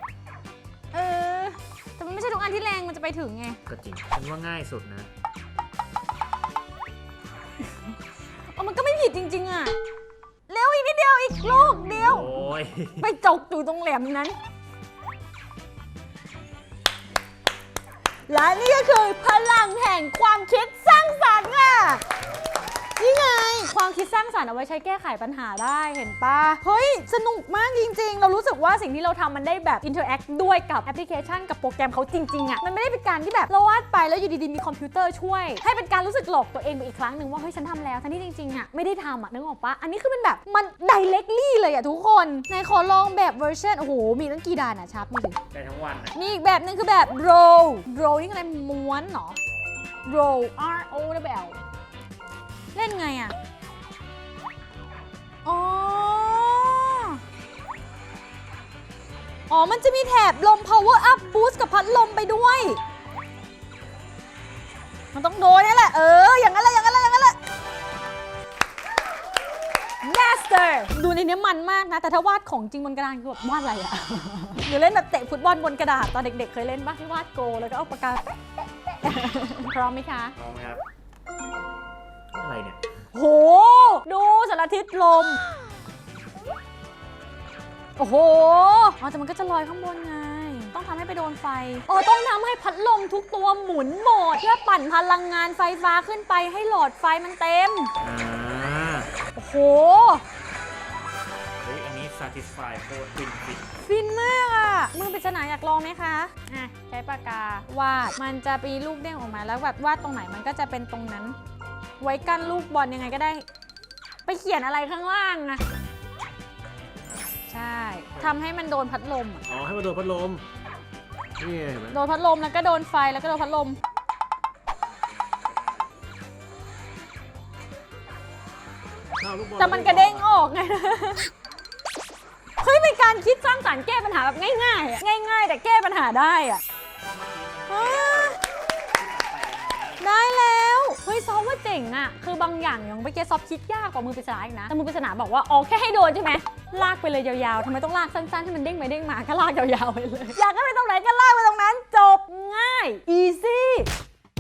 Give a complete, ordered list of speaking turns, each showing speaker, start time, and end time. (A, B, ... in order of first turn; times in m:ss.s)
0:00.9-0:03.6 A
0:03.7-0:05.1 B
0:08.5-0:09.7 A
0:10.5-0:14.4 A
0:11.8-0:13.1 B
0:18.3-0:22.0 A
0:23.0-0:45.4 A
0:45.5-0:46.1 B
0:46.2-0:49.4 A
0:50.0-0:51.6 A
0:52.7-0:53.4 A
0:55.4-0:57.2 A
0:59.5-1:02.8 A
1:05.1-1:07.4 A
1:10.0-1:18.3 A
1:18.9-1:20.3 A
1:20.4-1:20.8 B
1:22.3-1:22.8 B
1:23.1-1:25.4 A
1:28.0-1:37.9 A
1:38.0-1:39.1 B
1:39.4-1:40.2 A
1:41.6-1:43.6 B
1:43.8-1:51.4 A
1:52.0-1:53.5 A
1:54.2-1:55.6 A
1:57.5-1:59.5 A
1:59.5-2:00.4 B
2:01.4-2:02.0 B
2:01.9-2:03.8 A
2:09.2-2:10.2 B
2:09.5-2:11.3 A
2:12.6-2:16.6 A
2:17.0-2:20.0 B
2:17.7-2:18.4 A
2:20.0-2:33.9 A